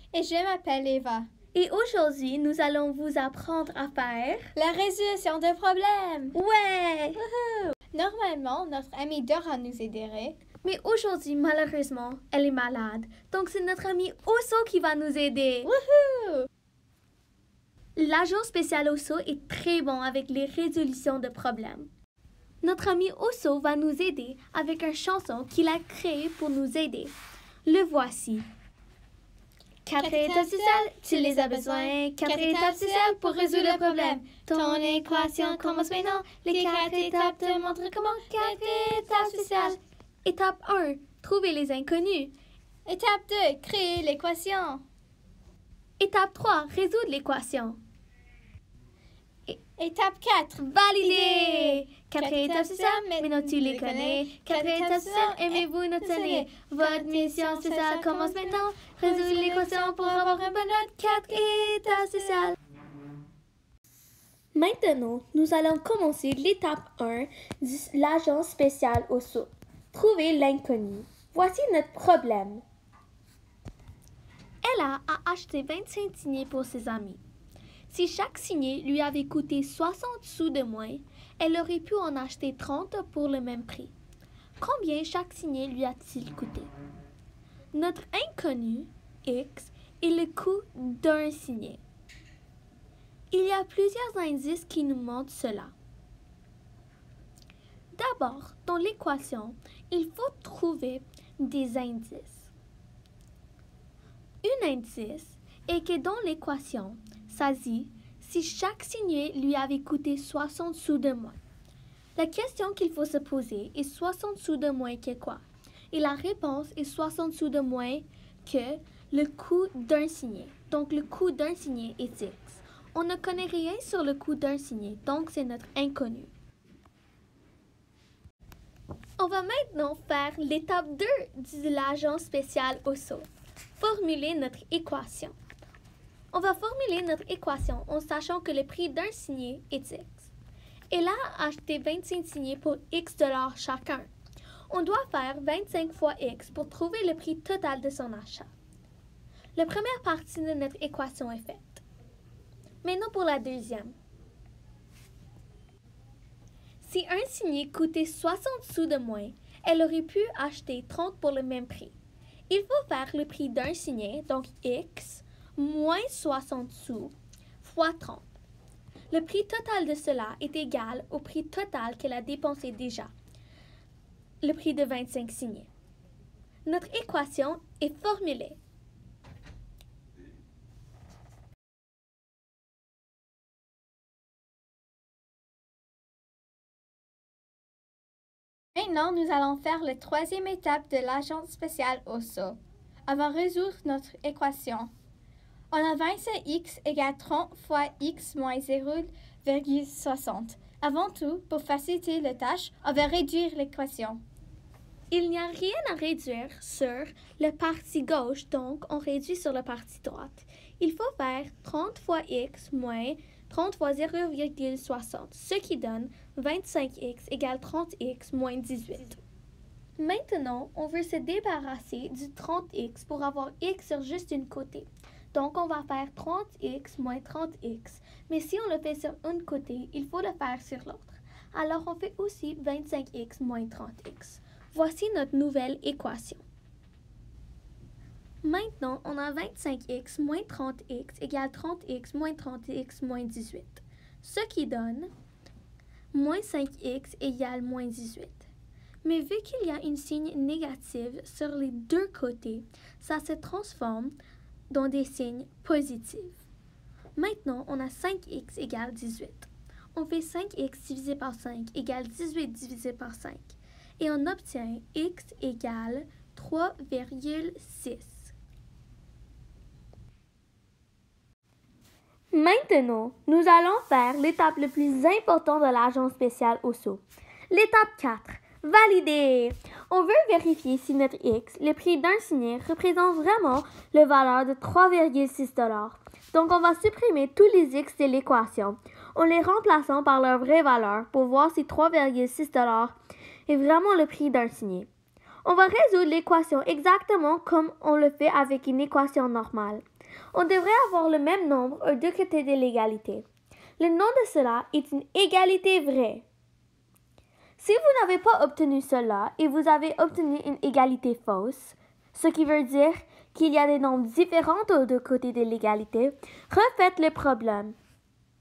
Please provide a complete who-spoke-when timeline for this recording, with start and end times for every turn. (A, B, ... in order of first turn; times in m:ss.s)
0:00.1-0:01.3 A
0:01.5-0:04.5 B
0:04.6-0:06.4 A
0:06.3-0:07.2 B
0:07.2-0:10.4 A
0:10.6-0:15.7 B
0:15.6-0:16.5 A
0:18.0-0:21.9 B
0:22.6-0:28.5 B
0:29.8-0:42.3 B
0:30.0-0:39.8 A
0:42.8-0:44.8 A
0:46.0-0:47.8 B
0:49.8-1:02.2 A
0:50.6-1:02.6 B
1:04.5-1:12.6 B
1:14.6-1:17.2 B
1:17.9-1:23.9 B
1:24.6-1:26.7 B
1:27.7-1:31.8 B
1:33.3-1:35.7 B
1:37.9-1:42.5 B
1:44.4-1:51.4 B
1:52.2-2:06.3 B
2:09.2-2:13.2 B
2:13.8-2:15.4 B
2:16.3-2:20.3 B
2:20.9-2:24.1 B
2:24.7-2:28.5 B
2:29.6-2:31.8 B
2:32.8-2:33.9 B
2:36.8-2:41.9 B
2:42.5-2:48.3 B
2:49.1-2:53.1 B
2:54.4-2:55.7 B
2:56.6-2:58.6 B
3:08.8-3:14.9 A
3:15.7-3:24.2 A
3:25.1-3:39.2 B
3:40.0-3:56.4 B
3:58.4-4:05.1 B
4:06.1-4:08.5 B
4:09.0-4:14.1 B
4:14.7-4:16.4 B
4:17.2-4:28.3 B
4:32.3-4:53.0 B
4:53.5-4:54.9 B
4:55.4-5:03.2 B
5:03.8-5:06.2 B
5:07.6-5:17.8 B